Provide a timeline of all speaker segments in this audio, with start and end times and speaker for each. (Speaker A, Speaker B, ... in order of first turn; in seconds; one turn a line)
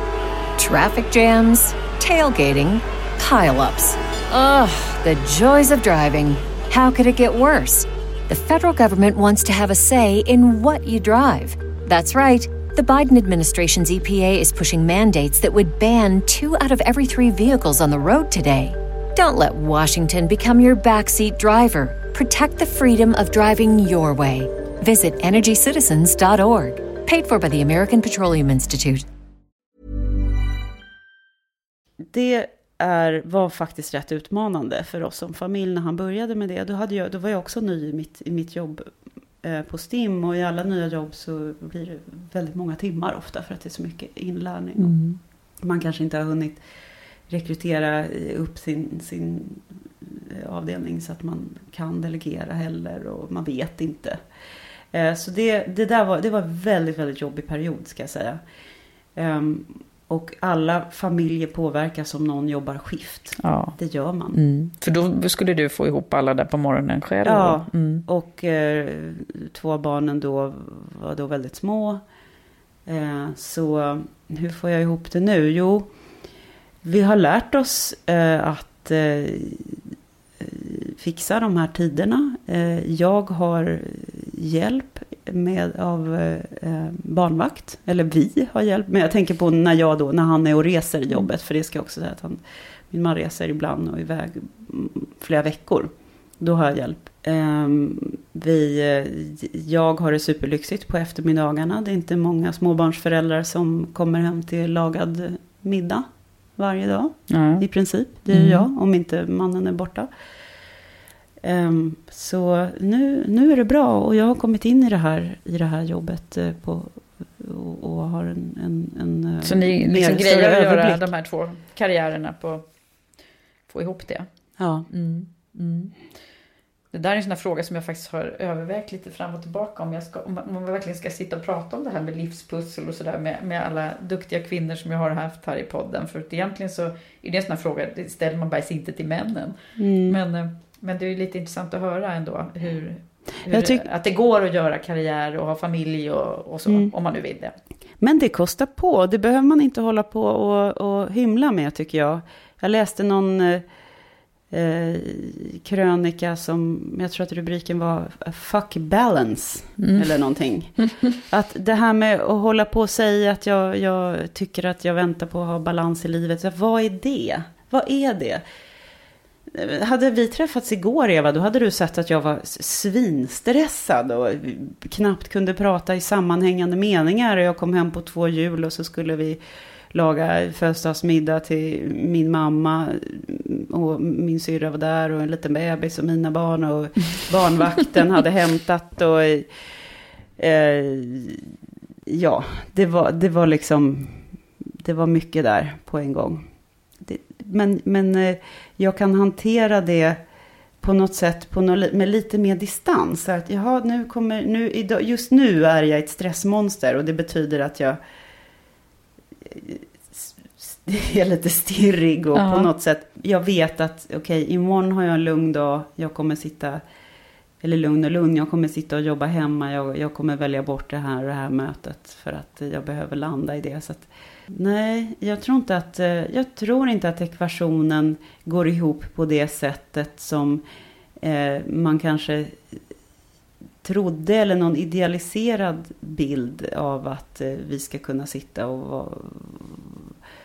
Speaker A: 0.6-29.0
Speaker B: 32.1-38.9
Speaker B: 39.4-44.9
Speaker C: 44.8-45.2
Speaker B: 45.6-46.6
Speaker B: 47.3-54.2
Speaker B: 54.9-58.4
Speaker B: 59.1-64.4
Speaker C: 63.4-63.8
Speaker C: 64.3-68.0
Speaker B: 67.2-72.0
Speaker B: 72.9-75.9
Speaker B: 76.8-79.8
Speaker B: 80.4-92.4
Speaker B: 92.9-106.0
Speaker B: 106.6-110.1
Speaker C: 107.3-107.7
Speaker C: 108.3-108.7
Speaker B: 111.4-121.1
Speaker C: 119.4-122.6
Speaker C: 123.7-124.3
Speaker B: 124.6-124.9
Speaker C: 124.9-125.9
Speaker C: 126.9-147.6
Speaker B: 139.8-140.2
Speaker B: 143.5-143.8
Speaker B: 148.0-153.6
Speaker B: 154.5-168.4
Speaker C: 159.8-160.2
Speaker C: 160.8-161.0
Speaker B: 169.5-179.4
Speaker B: 179.9-189.5
Speaker B: 190.4-191.4
Speaker B: 192.1-194.3
Speaker B: 194.8-196.4
Speaker B: 197.0-200.2
Speaker B: 200.8-208.0
Speaker B: 209.5-216.8
Speaker C: 212.3-212.7
Speaker B: 217.6-230.6
Speaker B: 231.2-232.7
Speaker B: 233.8-240.1